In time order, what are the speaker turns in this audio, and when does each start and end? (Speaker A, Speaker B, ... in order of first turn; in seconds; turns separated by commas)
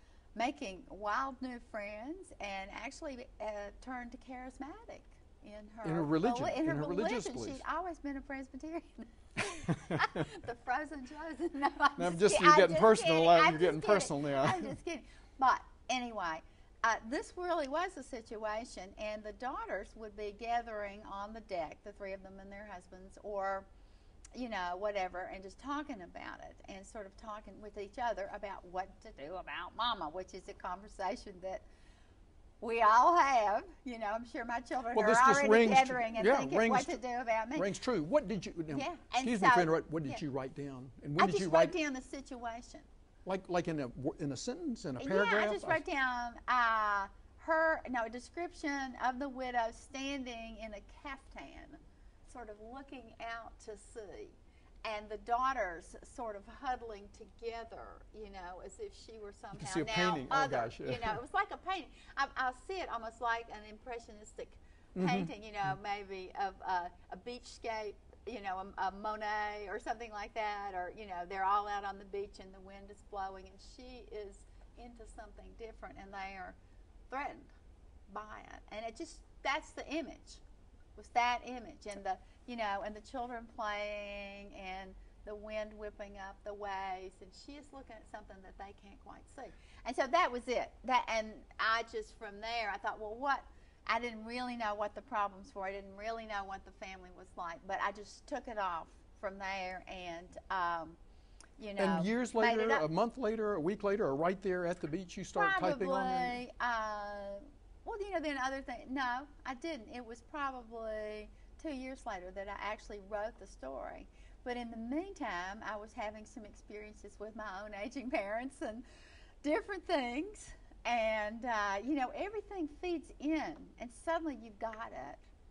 Speaker A: 0.3-23.7, Speaker B: 5.8-7.6, Speaker B: 9.7-10.3, Speaker B: 12.0-14.8, Speaker A: 24.3-31.6, Speaker A: 32.6-37.7, Speaker B: 34.9-37.0, Speaker B: 37.5-41.8, Speaker A: 38.7-40.2, Speaker A: 41.2-42.9, Speaker B: 43.2-45.8, Speaker A: 45.0-76.6, Speaker B: 59.5-61.2, Speaker B: 64.9-65.3, Speaker A: 77.1-77.5, Speaker A: 78.1-80.4, Speaker A: 81.0-101.0, Speaker A: 101.6-102.8, Speaker B: 101.8-106.4, Speaker A: 105.3-118.8, Speaker A: 119.4-125.2